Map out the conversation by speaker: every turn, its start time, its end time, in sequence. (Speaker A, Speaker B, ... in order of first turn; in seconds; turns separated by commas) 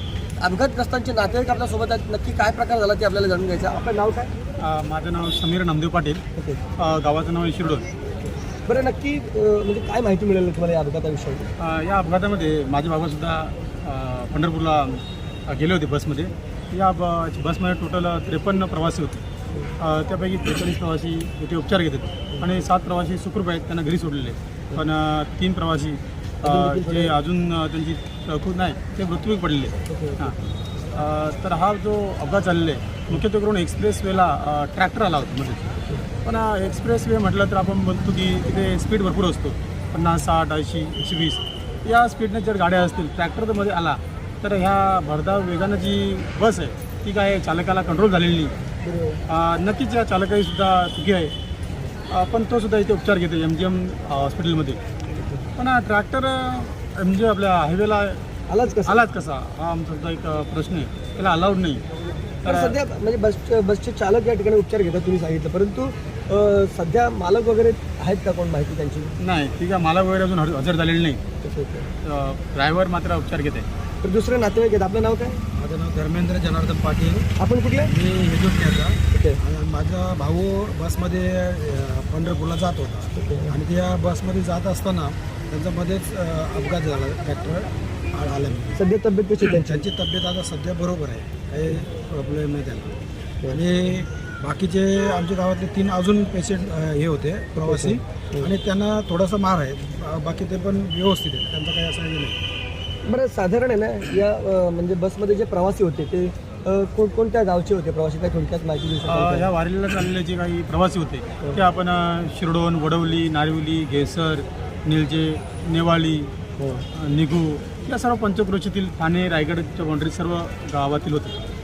Speaker A: 0.4-4.3, Speaker B: 4.6-6.2, Speaker A: 6.3-6.6, Speaker B: 6.8-7.9, Speaker A: 8.5-11.5, Speaker B: 11.6-19.2, Speaker B: 19.8-30.3, Speaker A: 26.4-27.1, Speaker A: 29.9-30.4, Speaker B: 30.9-35.7, Speaker A: 35.8-36.0, Speaker B: 36.2-48.5, Speaker A: 48.8-49.2, Speaker B: 49.3-51.3, Speaker B: 52.1-54.8, Speaker A: 55.1-55.5, Speaker B: 55.6-61.8, Speaker A: 58.5-59.1, Speaker B: 62.4-62.8, Speaker A: 62.4-69.1, Speaker B: 69.2-71.2, Speaker A: 71.4-71.9, Speaker B: 72.0-73.7, Speaker A: 74.0-75.4, Speaker C: 75.5-77.3, Speaker A: 77.4-77.9, Speaker C: 77.9-88.8, Speaker A: 79.1-79.4, Speaker A: 83.1-83.5, Speaker A: 88.7-89.8, Speaker C: 89.4-102.4, Speaker A: 97.6-98.5, Speaker A: 103.0-109.5, Speaker B: 109.0-116.3, Speaker A: 116.6-116.8, Speaker B: 116.9-121.4